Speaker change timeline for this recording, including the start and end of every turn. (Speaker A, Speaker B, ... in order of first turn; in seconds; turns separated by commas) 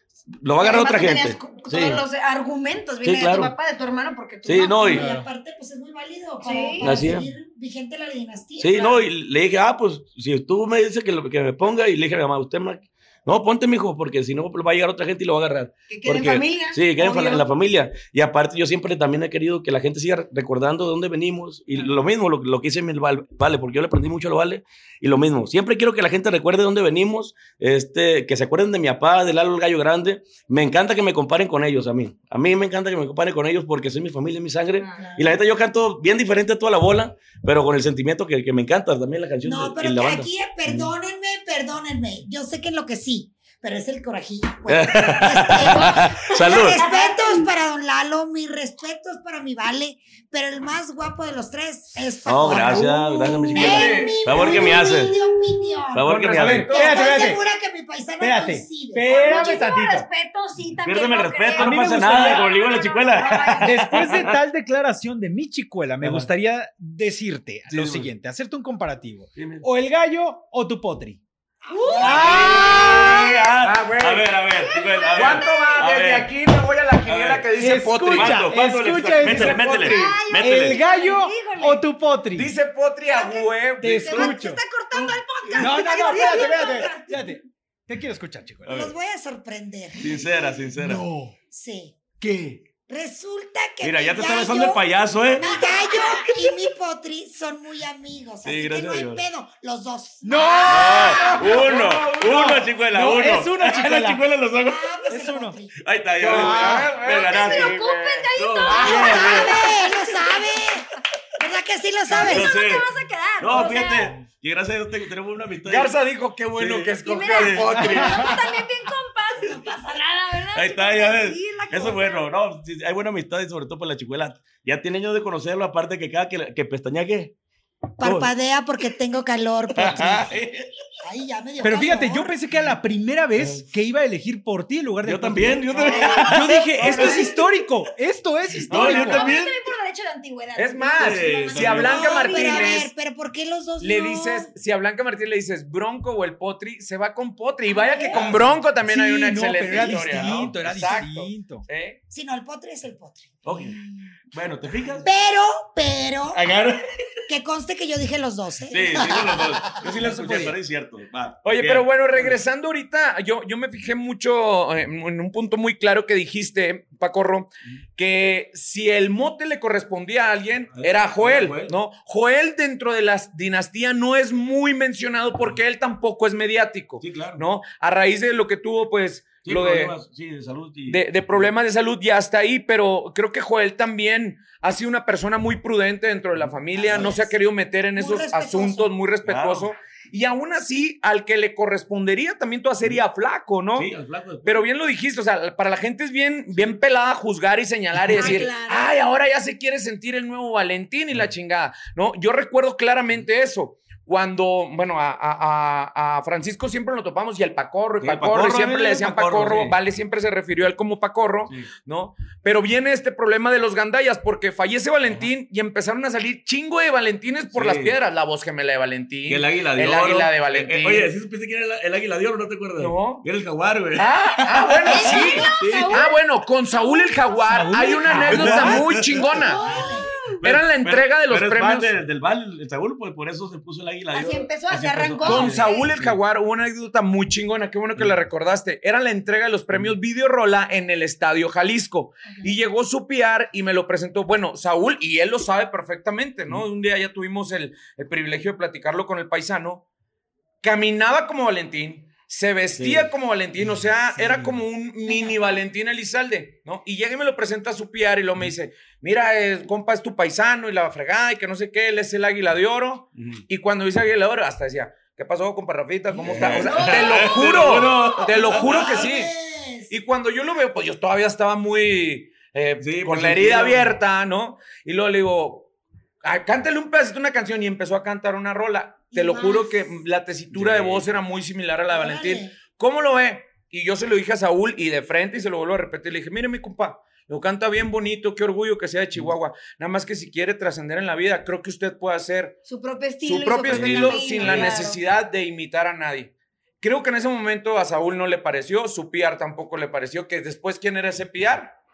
Speaker A: 0.3-2.0, Speaker B: 0.6-5.0, Speaker A: 3.0-3.5, Speaker A: 4.4-5.1, Speaker C: 4.7-9.0, Speaker B: 6.4-6.9, Speaker A: 6.8-7.3, Speaker A: 8.6-40.9, Speaker B: 15.9-17.5, Speaker B: 34.8-35.1, Speaker C: 35.0-35.4, Speaker C: 39.4-56.0, Speaker A: 44.7-46.8, Speaker B: 45.7-47.5, Speaker A: 52.3-55.1, Speaker D: 53.5-54.4, Speaker A: 55.9-56.7, Speaker D: 56.0-57.3, Speaker E: 56.3-57.4, Speaker C: 56.7-59.4, Speaker E: 58.2-60.1, Speaker B: 59.0-64.2, Speaker A: 60.8-64.4, Speaker E: 61.5-62.5, Speaker E: 63.6-71.2, Speaker A: 66.0-66.3, Speaker A: 67.7-68.1, Speaker A: 69.4-69.7, Speaker B: 71.7-73.1, Speaker C: 71.7-73.3, Speaker E: 72.0-73.0, Speaker A: 72.1-76.3, Speaker D: 72.2-74.4, Speaker B: 74.6-75.8, Speaker D: 75.1-78.5, Speaker A: 77.1-77.5, Speaker E: 77.6-82.5, Speaker A: 78.1-80.8, Speaker D: 79.2-80.2, Speaker B: 79.7-81.8, Speaker D: 82.3-84.3, Speaker B: 83.1-87.4, Speaker E: 83.8-85.0, Speaker E: 85.6-88.8, Speaker C: 86.2-86.4, Speaker A: 88.7-88.9, Speaker C: 88.7-90.3, Speaker A: 90.0-91.1, Speaker E: 90.8-91.4, Speaker C: 91.5-92.0, Speaker E: 92.2-92.6, Speaker C: 92.9-94.8, Speaker A: 93.8-95.6, Speaker C: 95.3-101.4, Speaker A: 98.4-99.2, Speaker E: 100.2-104.2, Speaker A: 100.7-105.1, Speaker D: 101.4-102.6, Speaker C: 104.7-105.8, Speaker E: 105.1-105.6, Speaker A: 105.8-107.8, Speaker D: 106.2-109.2, Speaker E: 106.3-107.0, Speaker B: 107.1-110.6, Speaker A: 108.4-109.8, Speaker C: 108.7-112.5, Speaker B: 112.1-114.2, Speaker A: 112.1-112.9, Speaker A: 113.4-115.9, Speaker D: 115.7-118.5, Speaker A: 116.6-118.3, Speaker B: 117.0-122.2, Speaker A: 120.5-127.4, Speaker C: 128.0-130.3, Speaker A: 128.0-128.3, Speaker A: 129.8-130.7, Speaker C: 131.0-132.3, Speaker E: 131.6-135.7, Speaker A: 133.4-133.6, Speaker A: 135.0-137.3, Speaker B: 135.8-137.5, Speaker E: 136.2-139.4, Speaker B: 138.7-142.8, Speaker A: 138.7-139.7, Speaker D: 140.6-142.9, Speaker A: 141.0-142.1, Speaker C: 141.7-144.5, Speaker D: 143.8-152.0, Speaker C: 147.7-148.2, Speaker B: 147.9-148.2, Speaker E: 148.9-151.7, Speaker C: 152.1-154.1, Speaker A: 153.4-153.8, Speaker A: 154.3-155.1, Speaker C: 155.0-156.4, Speaker A: 156.3-156.8, Speaker C: 157.3-159.7, Speaker A: 158.7-162.4, Speaker D: 159.9-160.5, Speaker E: 159.9-160.5, Speaker D: 161.4-179.9, Speaker A: 170.7-171.8, Speaker A: 177.0-177.4, Speaker A: 179.4-181.5, Speaker D: 180.9-193.9, Speaker C: 186.8-187.3, Speaker C: 188.0-188.9, Speaker A: 189.3-189.7, Speaker A: 193.8-194.7, Speaker D: 194.4-221.1, Speaker B: 198.2-198.9, Speaker A: 198.2-198.5, Speaker A: 208.0-209.8, Speaker A: 217.5-218.0, Speaker A: 219.3-226.1, Speaker D: 222.8-223.2, Speaker D: 223.9-229.6, Speaker B: 224.9-226.1, Speaker B: 226.8-227.1, Speaker E: 227.5-228.9, Speaker A: 228.1-229.3, Speaker C: 229.3-230.1, Speaker B: 229.3-230.4, Speaker D: 230.4-231.9, Speaker A: 230.4-236.2, Speaker B: 234.1-235.9, Speaker D: 235.2-249.8, Speaker D: 250.6-269.3, Speaker A: 252.8-253.1, Speaker B: 255.1-255.3, Speaker A: 266.2-269.0, Speaker B: 266.4-267.4, Speaker C: 268.2-269.9, Speaker D: 269.9-275.7, Speaker A: 272.8-274.0, Speaker D: 276.2-292.6, Speaker C: 279.1-279.9, Speaker A: 280.5-281.1, Speaker C: 281.9-282.5, Speaker B: 292.7-295.0, Speaker D: 293.2-301.8, Speaker A: 293.7-294.8